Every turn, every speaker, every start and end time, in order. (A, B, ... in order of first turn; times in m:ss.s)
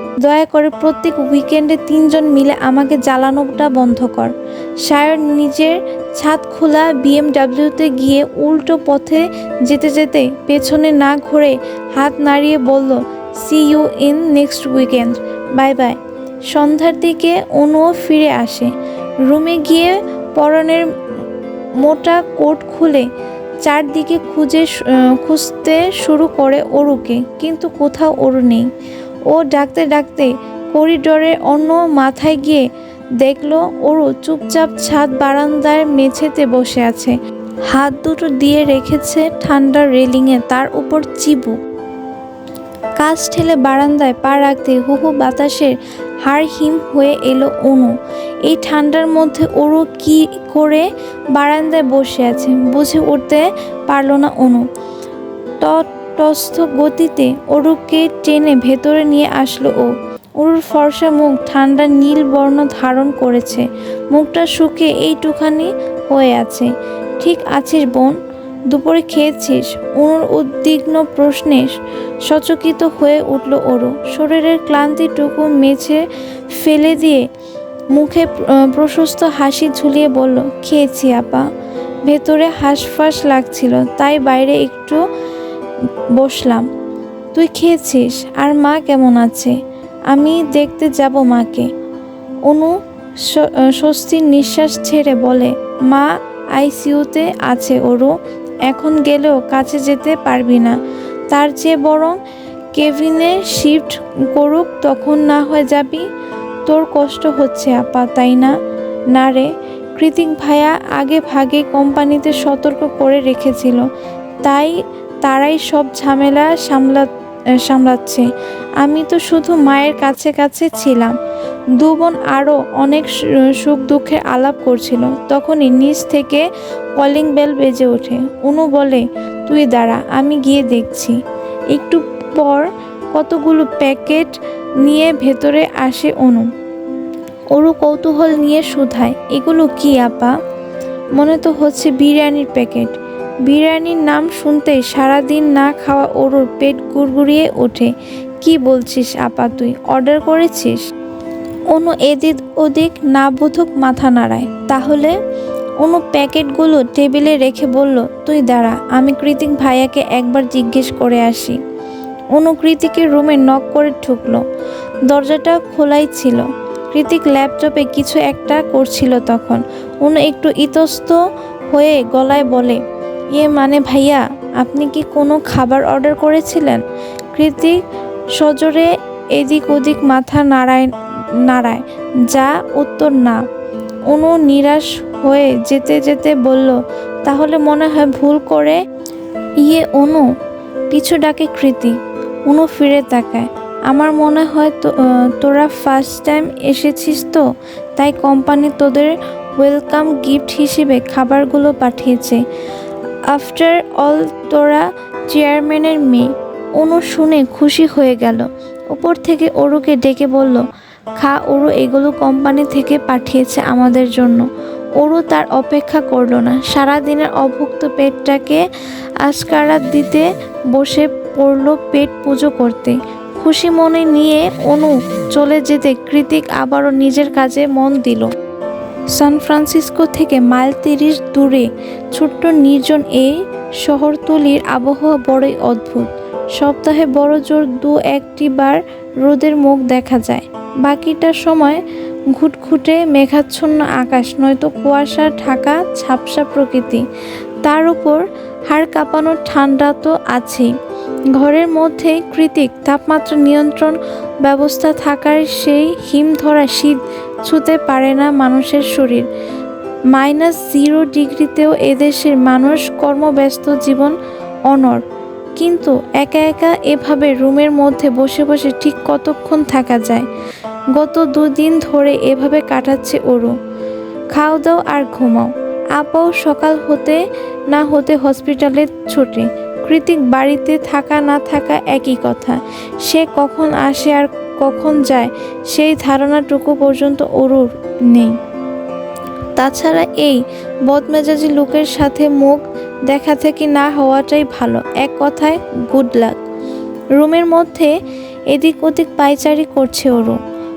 0:00.2-0:18.7 A
0:19.2-0:20.9 A
0:21.8-0:23.1 A
0:23.6-0:28.7 A
0:29.3-0:32.6 A
0:33.2-0:37.1 A
0:37.7-0:41.6 A
0:43.0-0:47.9 A
0:48.4-0:54.7 A
0:55.6-1:08.2 A
1:08.7-1:17.2 A
1:17.9-1:21.5 A
1:22.0-1:25.0 A
1:26.1-1:26.7 A
1:27.3-1:29.6 A
1:30.1-1:31.7 A
1:32.5-1:38.1 A
1:38.7-1:40.8 A
1:41.3-1:42.2 A
1:42.7-1:46.0 A
1:46.7-1:48.5 A
1:49.1-1:53.8 A
1:54.4-1:58.3 A
1:58.8-2:01.2 A
2:01.7-2:11.2 A
2:11.7-2:16.5 A
2:17.5-2:20.3 A
2:21.2-2:30.8 A
2:31.7-2:35.2 A
2:35.8-2:41.6 A
2:42.3-2:44.4 A
2:45.1-2:52.8 A
2:53.3-2:56.8 A
2:57.3-2:57.8 A
2:58.4-3:00.9 A
3:01.4-3:03.4 A
3:04.1-3:08.8 A
3:09.6-3:10.3 A
3:10.9-3:12.0 A
3:12.5-3:17.4 A
3:18.0-3:22.4 A
3:23.3-3:30.6 A
3:31.2-3:34.4 A
3:35.0-3:38.6 A
3:39.2-3:48.3 A
3:49.1-4:07.1 A
4:07.6-4:10.7 A
4:11.3-4:19.3 A
4:20.1-4:24.2 A
4:24.7-4:25.0 A
4:25.6-4:30.3 A
4:30.9-4:33.5 A
4:34.3-4:48.4 A
4:49.6-4:56.4 A
4:57.2-4:57.9 A
4:58.5-5:00.4 A